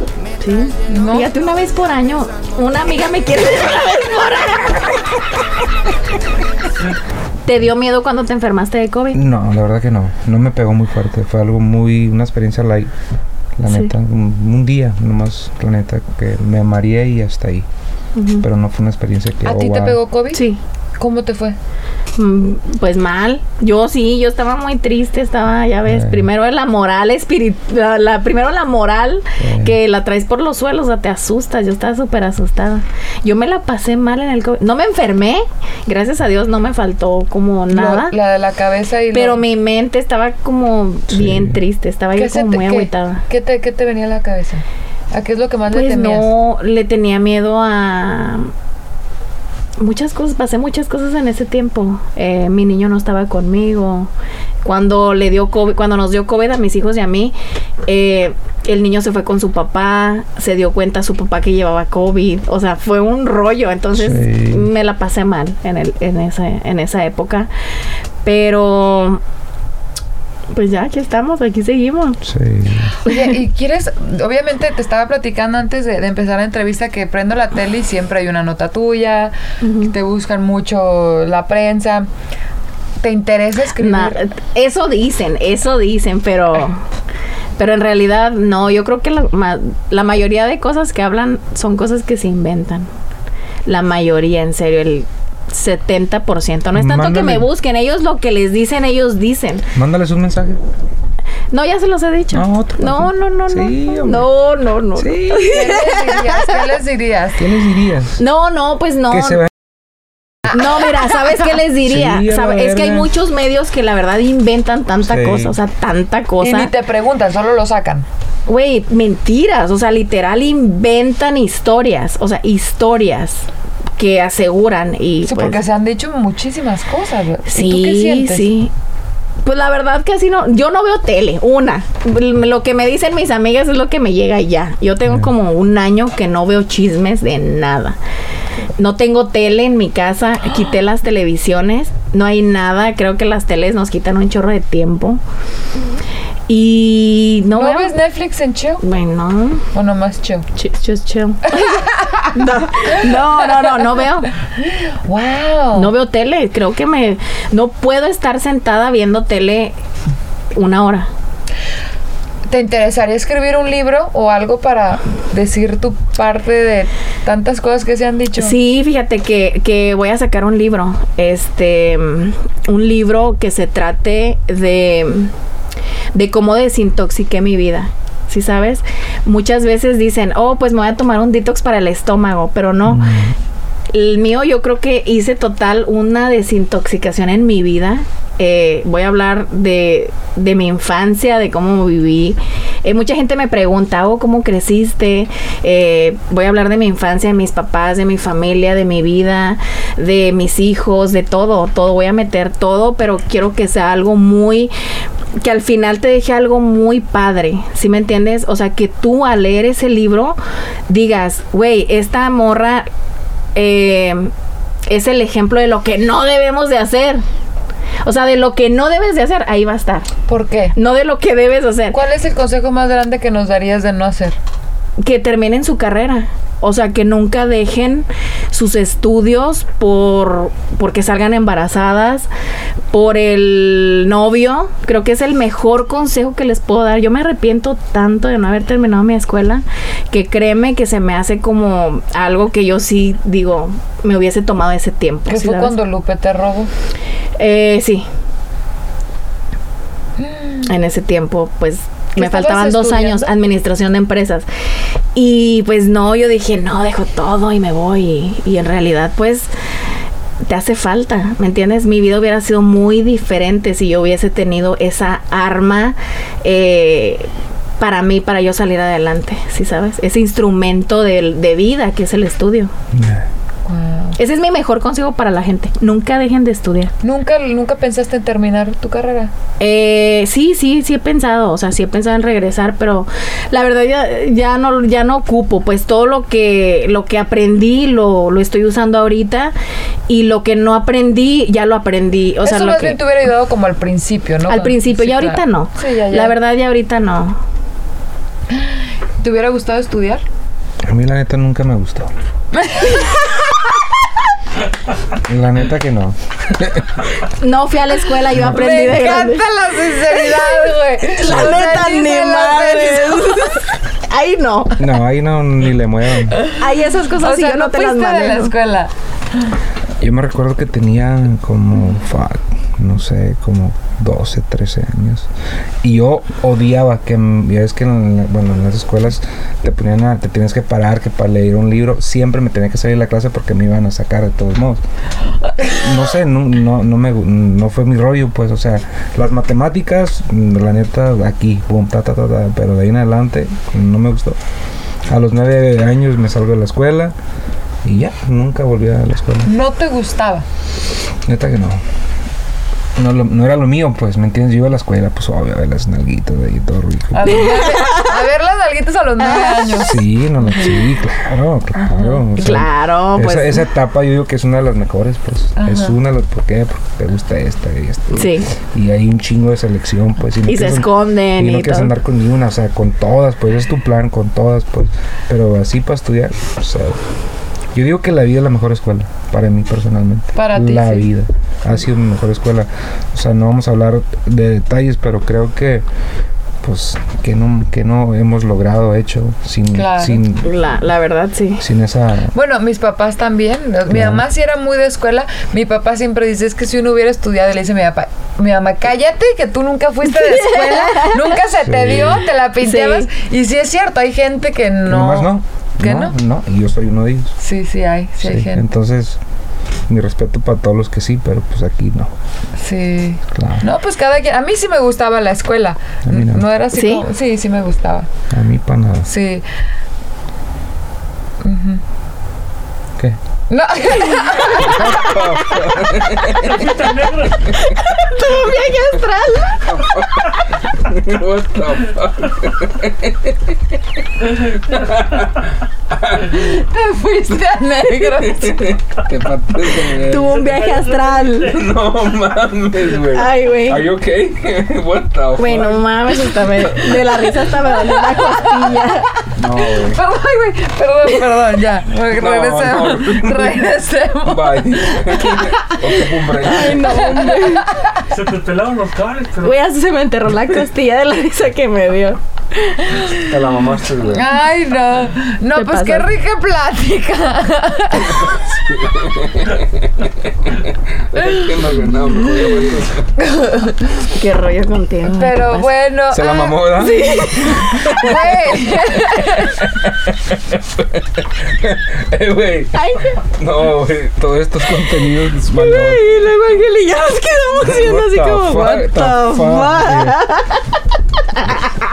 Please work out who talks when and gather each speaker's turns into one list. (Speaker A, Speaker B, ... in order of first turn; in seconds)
Speaker A: 0.4-5.4, 7.5-9.2, 18.1-18.4, 20.3-20.6, 22.1-38.2, 39.1-43.2, 45.7-48.5, 49.8-54.1, 54.6-67.5, 68.2-69.2, 70.5-72.2, 79.6-79.9, 83.8-86.8, 87.6-92.9, 93.6-99.7, 101.5-106.6, 108.2-109.4, 110.5-116.7, 118.5-125.6, 127.5-128.7, 129.4-138.0, 138.8-145.2, 146.5-147.9, 148.8-149.7, 150.5-154.3, 155.7-159.8, 160.5-161.1, 168.3-175.3, 176.1-183.1, 183.9-204.7, 205.4-212.9, 213.5-214.3, 214.9-217.2, 218.0-220.1, 220.7-222.0, 225.0-232.3, 232.9-245.8, 247.4-248.1, 250.6-254.5, 255.1-259.5, 260.4-272.7, 274.1-276.9, 279.6-289.5, 290.1-293.0, 294.5-297.4, 307.4-309.5, 311.1-314.8, 316.5-318.5, 357.6-358.1, 362.4-363.6, 368.1-368.5, 370.4-371.9, 390.4-391.6, 400.1-401.2, 402.6-403.1, 416.7-417.0, 427.5-429.6, 439.9-441.6, 443.1-443.9, 445.4-449.1, 456.4-457.7, 459.3-462.2, 465.5-466.1, 474.1-475.7, 476.8-478.1, 482.7-483.2, 485.5-490.7
Speaker B: 0.9-1.3, 19.4-20.4, 21.0-21.6, 37.7-39.4, 42.1-46.3, 73.0-82.1, 83.0-84.3, 105.4-107.4, 116.4-118.1, 125.2-128.5, 147.5-148.8, 149.7-150.4, 151.5-152.2, 152.9-153.6, 154.6-155.9, 162.5-168.6, 220.3-220.7, 221.9-224.3, 245.3-246.7, 250.2-250.6, 252.2-253.3, 273.6-274.2, 277.0-279.3, 292.4-296.3, 298.5-300.2, 302.6-303.4, 308.3-313.6, 317.2-318.9, 349.4-350.4, 357.1-360.8, 361.8-362.6, 365.6-365.9, 380.3-381.1, 389.7-390.2, 392.3-406.1, 407.4-408.6, 412.6-418.1, 419.1-419.4, 421.4-421.8, 423.5-425.0, 436.4-438.8, 449.6-455.9, 456.7-457.9, 464.1-468.1, 471.3-471.6, 473.3-473.8, 475.1-477.0, 477.9-479.6
Speaker C: 9.1-12.9, 13.6-17.7, 18.4-20.0, 25.9-26.3, 29.4-29.8, 41.1-41.6, 63.9-64.7, 72.2-73.0, 96.7-97.5, 99.7-100.6, 102.3-104.3, 105.0-105.5, 107.4-108.2, 111.7-113.1, 115.0-115.5, 182.8-183.3, 272.9-273.2, 300.9-302.1, 305.1-307.0, 308.3-308.6, 311.2-311.5, 314.8-316.4, 320.0-325.3, 325.8-334.8, 335.6-344.4, 345.1-347.1, 347.8-349.5, 351.2-351.8, 352.9-357.7, 359.8-377.0, 377.7-385.9, 386.6-390.5, 391.6-392.3, 393.9-394.2, 401.6-402.3, 404.9-407.3, 408.2-409.2, 409.9-412.1, 413.3-413.7, 416.1-416.4, 418.3-419.1, 424.6-426.9, 429.7-433.6, 434.1-436.5, 438.0-440.5, 441.2-447.3, 449.4-450.0, 451.9-453.6, 454.2-457.2, 463.2-464.3, 468.1-473.1, 476.1-478.3, 479.3-486.0, 487.6-490.2
Speaker D: 426.6-427.1, 458.1-459.5